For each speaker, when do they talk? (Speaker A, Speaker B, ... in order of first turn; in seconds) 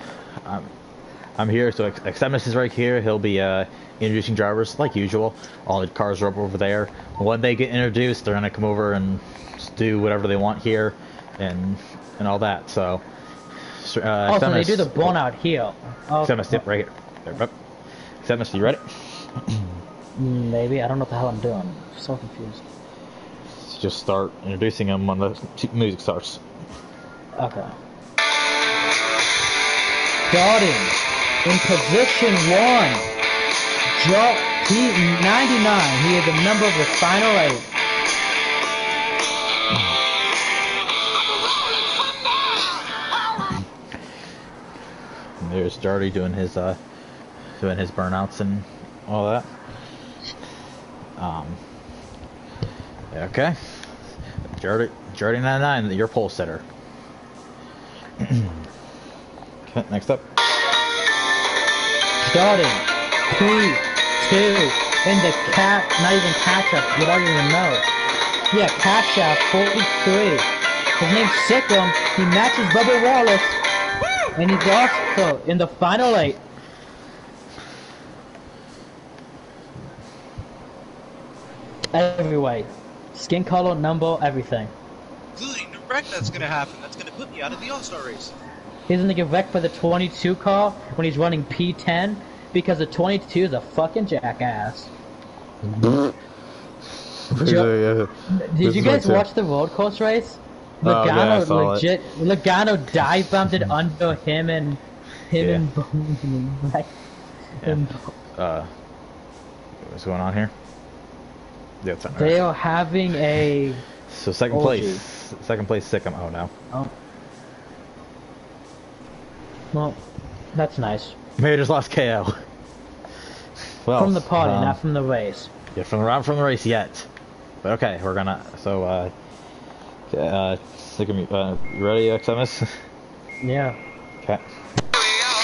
Speaker A: 0.5-0.7, 1.4-13.0, 13.7-15.2, 16.2-17.5, 18.2-19.8, 23.6-26.4, 45.4-46.8, 47.6-49.5, 51.2-51.6, 53.1-53.9, 54.5-56.6, 58.2-58.7, 59.7-60.2, 95.7-96.1, 97.3-99.2, 100.8-101.9, 105.4-105.6, 108.4-108.7, 109.8-110.5, 111.8-112.4, 114.1-116.5, 121.4-122.4, 123.8-124.8, 125.7-127.1, 127.6-129.1, 130.1-132.8
Speaker B: 14.3-16.6, 20.2-22.6, 27.4-27.7, 30.3-33.1, 34.0-37.7, 62.2-67.9, 68.5-70.5, 71.0-73.6, 74.4-76.4, 81.9-84.7, 88.9-94.9, 97.4-97.7, 98.3-104.8, 105.3-106.9, 107.6-108.1, 112.2-113.8, 114.5-115.0, 119.7-120.0, 120.5-121.2, 124.0-125.5, 133.4-133.8
Speaker C: 85.4-88.4